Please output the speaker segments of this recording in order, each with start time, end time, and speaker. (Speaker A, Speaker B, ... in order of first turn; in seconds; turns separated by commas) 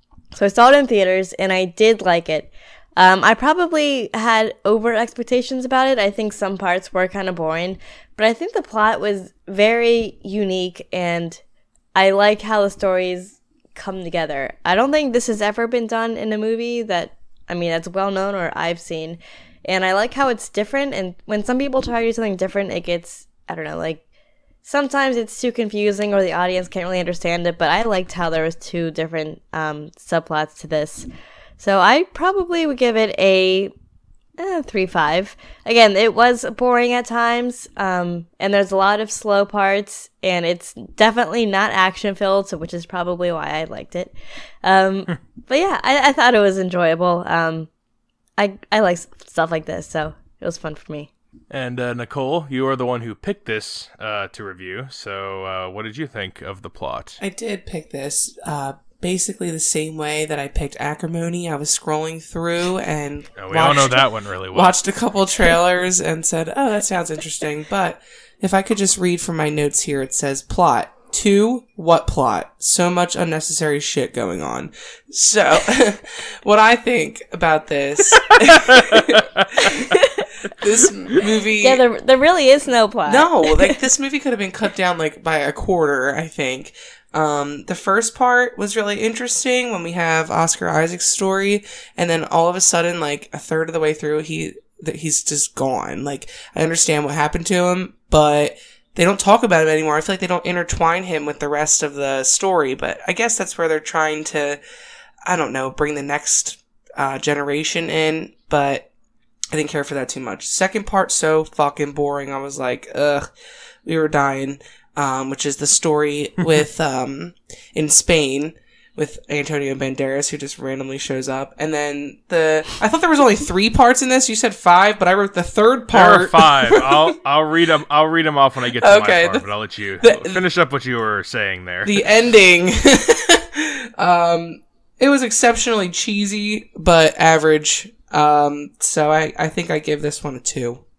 Speaker A: 0.3-11.4, Speaker A: 11.9-24.0, Speaker A: 24.6-31.1, Speaker A: 31.6-33.7, Speaker A: 34.4-44.1, Speaker A: 44.6-47.7, Speaker A: 48.4-51.1, Speaker B: 51.5-57.2, Speaker C: 57.2-79.9, Speaker B: 63.4-64.8, Speaker B: 78.2-79.8, Speaker A: 79.7-80.3, Speaker C: 80.5-81.8, Speaker A: 81.6-83.8, Speaker C: 83.1-104.6, Speaker C: 105.2-108.9, Speaker C: 109.5-113.2, Speaker C: 113.8-127.2, Speaker B: 125.9-132.0, Speaker C: 128.8-129.4, Speaker C: 130.0-130.4, Speaker C: 131.8-140.8